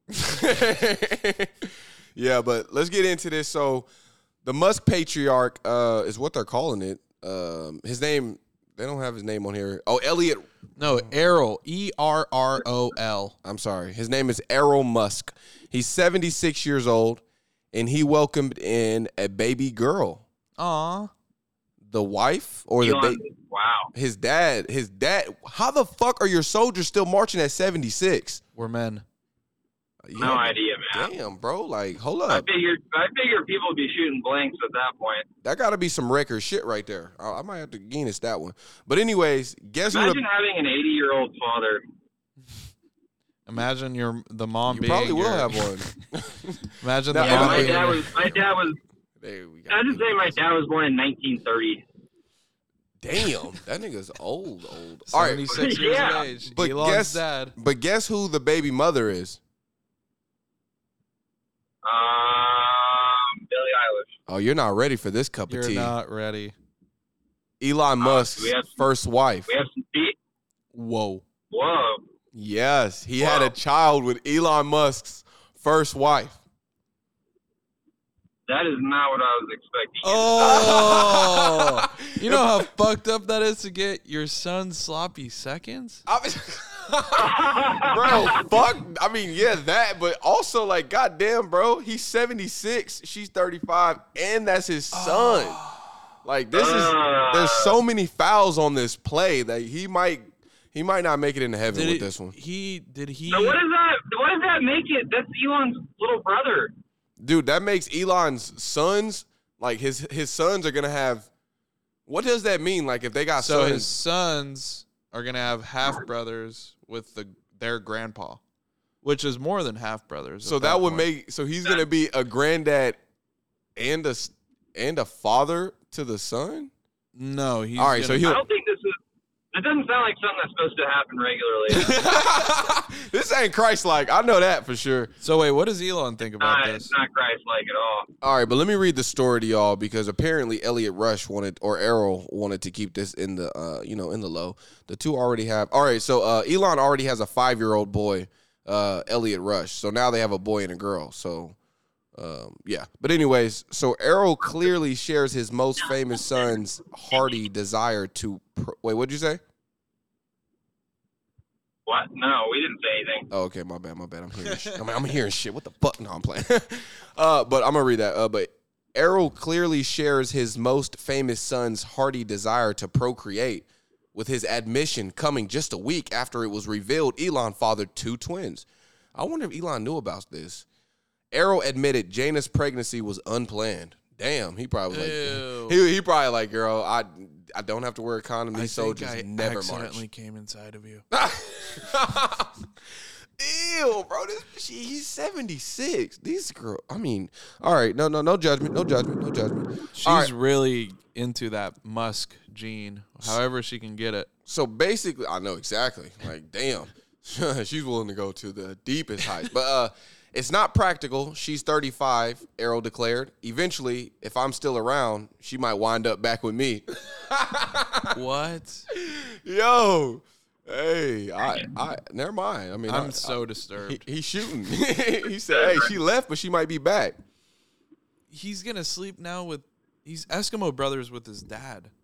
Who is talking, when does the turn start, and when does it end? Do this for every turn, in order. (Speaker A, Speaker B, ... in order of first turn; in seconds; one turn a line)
Speaker A: 0.1-3.9
Speaker A: 4.4-10.5
Speaker B: 10.8-13.3
Speaker A: 13.4-17.2
Speaker A: 17.7-20.2
Speaker B: 20.6-21.1
Speaker A: 21.8-23.2
Speaker C: 22.8-23.9
Speaker A: 23.9-28.4
Speaker B: 28.6-29.0
Speaker A: 30.0-32.5
Speaker C: 30.2-31.1
Speaker C: 32.3-35.2
Speaker A: 35.4-40.2
Speaker C: 39.9-41.8
Speaker B: 43.5-45.9
Speaker A: 44.7-48.6
Speaker B: 46.8-48.1
Speaker C: 47.1-48.8
Speaker A: 49.2-50.4
Speaker C: 49.7-51.8
Speaker A: 53.0-59.4
Speaker B: 55.1-57.5
Speaker C: 55.5-56.2
Speaker C: 61.8-64.2
Speaker A: 64.3-65.9
Speaker B: 65.5-66.5
Speaker A: 67.6-69.5
Speaker C: 68.0-68.8
Speaker C: 69.5-70.2
Speaker B: 70.7-71.2
Speaker C: 71.5-72.0
Speaker A: 72.3-76.4
Speaker C: 73.2-73.5
Speaker C: 78.5-80.8
Speaker B: 80.0-86.0
Speaker A: 80.4-82.7
Speaker A: 86.0-95.6
Speaker C: 87.1-88.4
Speaker B: 94.9-95.9
Speaker A: 96.2-102.3
Speaker C: 96.5-97.7
Speaker B: 101.7-103.6
Speaker C: 103.3-106.7
Speaker A: 107.2-111.3
Speaker A: 112.1-113.9
Speaker B: 113.4-118.4
Speaker B: 119.0-121.1
Speaker A: 120.4-123.0
Speaker A: 123.8-126.7
Speaker B: 127.1-128.4
Speaker A: 127.8-128.4
Speaker C: 128.2-129.0
Speaker C: 129.5-131.9
Speaker A: 131.7-135.1
Speaker B: 131.8-132.2
Speaker B: 135.2-136.9
Speaker C: 136.4-138.1
Speaker A: 138.2-151.6
Speaker A: 152.1-159.4
Speaker C: 161.8-163.3
Speaker A: 163.3-180.7
Speaker B: 164.5-164.8
Speaker A: 181.3-190.0
Speaker B: 184.9-185.8
Speaker B: 188.5-191.0
Speaker A: 191.1-192.7
Speaker A: 193.4-200.3
Speaker B: 199.9-204.3
Speaker A: 204.4-218.2
Speaker B: 218.1-218.8
Speaker A: 218.9-227.2
Speaker B: 222.9-224.0
Speaker C: 225.5-225.9
Speaker B: 228.3-231.9